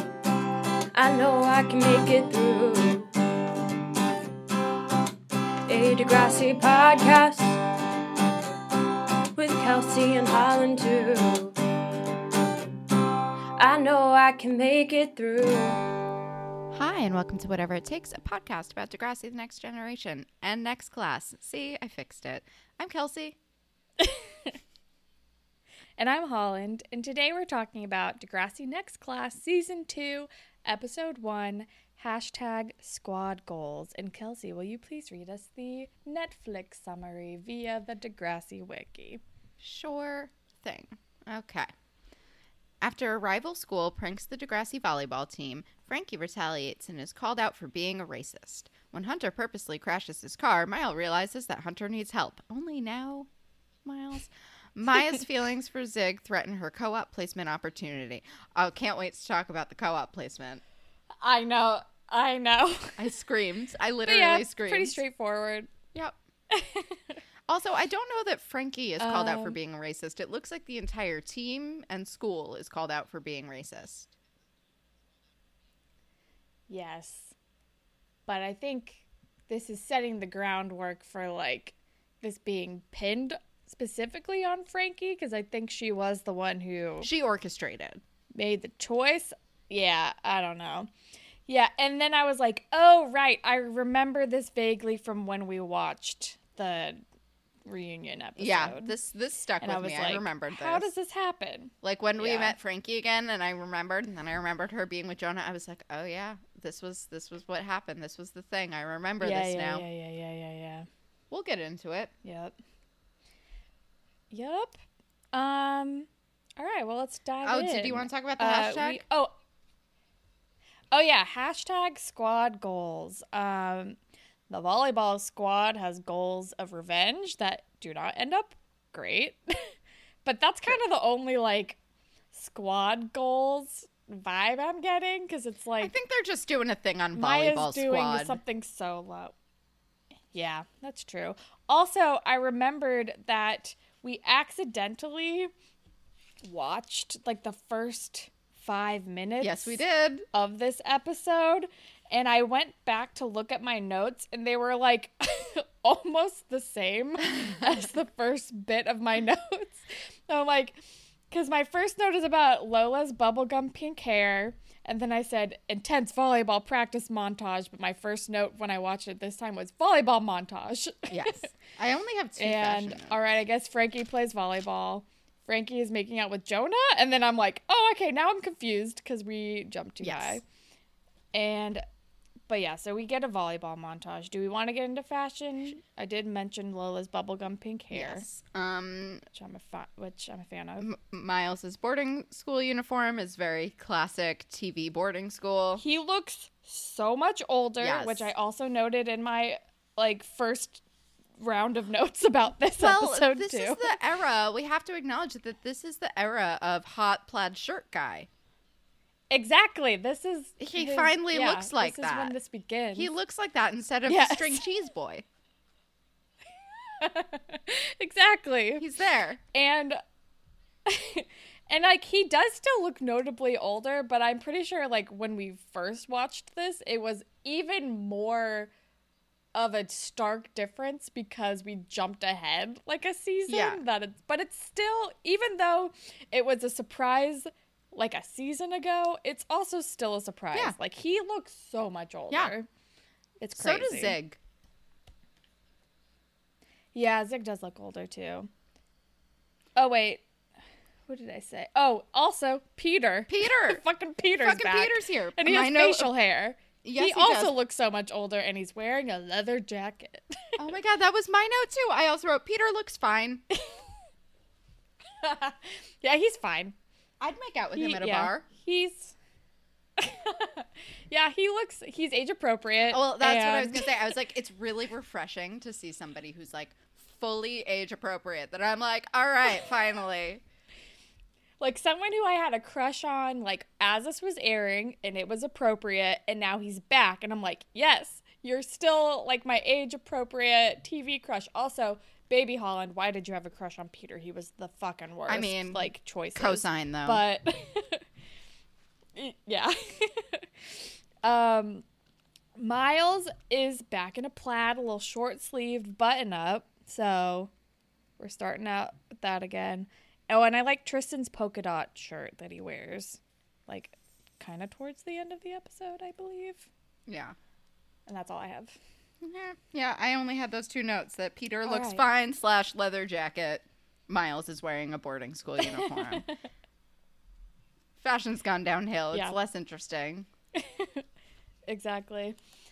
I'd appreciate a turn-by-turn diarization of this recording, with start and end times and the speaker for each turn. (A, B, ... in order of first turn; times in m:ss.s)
0:00.9-0:03.1 A
0:05.7-0:07.6 A
0:09.3-0:11.6 A
0:13.6-0:15.8 A
0:16.7-0:23.4 B
0:24.0-0:24.6 C
0:26.0-0:39.2 C
0:39.6-0:41.7 B
0:42.8-0:53.3 B
0:53.8-1:00.6 B
1:01.2-1:03.1 C
1:03.0-1:05.0 B
1:04.1-1:05.7 C
1:06.5-1:07.2 C
1:07.5-1:14.1 B
1:09.0-1:09.6 C
1:16.7-1:17.4 C
1:18.3-1:27.1 C
1:27.0-1:28.0 B
1:28.4-1:30.9 C
1:31.5-1:37.0 C
1:37.7-1:38.9 C
1:38.4-1:40.9 B
1:39.6-1:42.6 C
1:41.8-1:49.8 B
1:49.2-1:50.9 C
1:51.3-1:52.1 B
1:52.2-1:52.6 C
1:54.3-1:54.8 C
1:55.3-1:59.4 C
1:57.4-1:59.0 B
2:00.9-2:04.0 C
2:04.5-2:09.7 C
2:10.2-2:11.8 C
2:12.3-2:15.9 C
2:15.8-2:18.4 B
2:17.2-2:19.3 C
2:20.3-2:25.5 C
2:26.4-2:51.5 C
2:29.4-2:30.3 B
2:37.3-2:37.8 B
2:51.1-2:53.2 B
2:52.4-3:00.4 C
3:00.0-3:00.4 B
3:01.3-3:01.8 C
3:02.5-3:08.3 C
3:07.9-3:09.2 B
3:09.3-3:10.9 C
3:10.8-3:15.8 B
3:15.8-3:20.8 C
3:17.8-3:18.3 B
3:21.4-3:24.0 C
3:22.8-3:28.3 B
3:29.3-3:33.1 C
3:30.6-3:32.4 B
3:33.0-3:35.2 B
3:34.1-3:34.6 C
3:36.9-3:38.8 C
3:38.8-3:39.4 B
3:39.5-3:40.0 C
3:40.9-3:48.7 C
3:49.5-4:02.7 C
3:53.5-3:53.8 B
4:03.4-4:04.2 C
4:03.6-4:04.4 B
4:06.9-4:08.5 C
4:09.8-4:10.2 C
4:11.1-4:20.6 C
4:13.3-4:13.8 B
4:14.4-4:16.1 B
4:16.8-4:17.6 B
4:20.6-4:23.4 B
4:23.5-4:23.8 C
4:25.2-4:26.8 C
4:27.2-4:28.5 B
4:27.8-4:29.2 C
4:30.0-4:34.0 C
4:32.9-4:40.4 B
4:41.6-4:58.1 C
4:55.3-4:57.2 B
4:59.2-5:01.8 C
5:02.6-5:07.5 C
5:08.2-5:16.7 C
5:17.1-5:17.4 B
5:18.1-5:18.8 C
5:19.2-5:26.3 B
5:21.7-5:22.0 C
5:25.6-5:26.4 C
5:28.0-5:30.3 B
5:30.6-5:31.0 C
5:31.7-5:32.4 C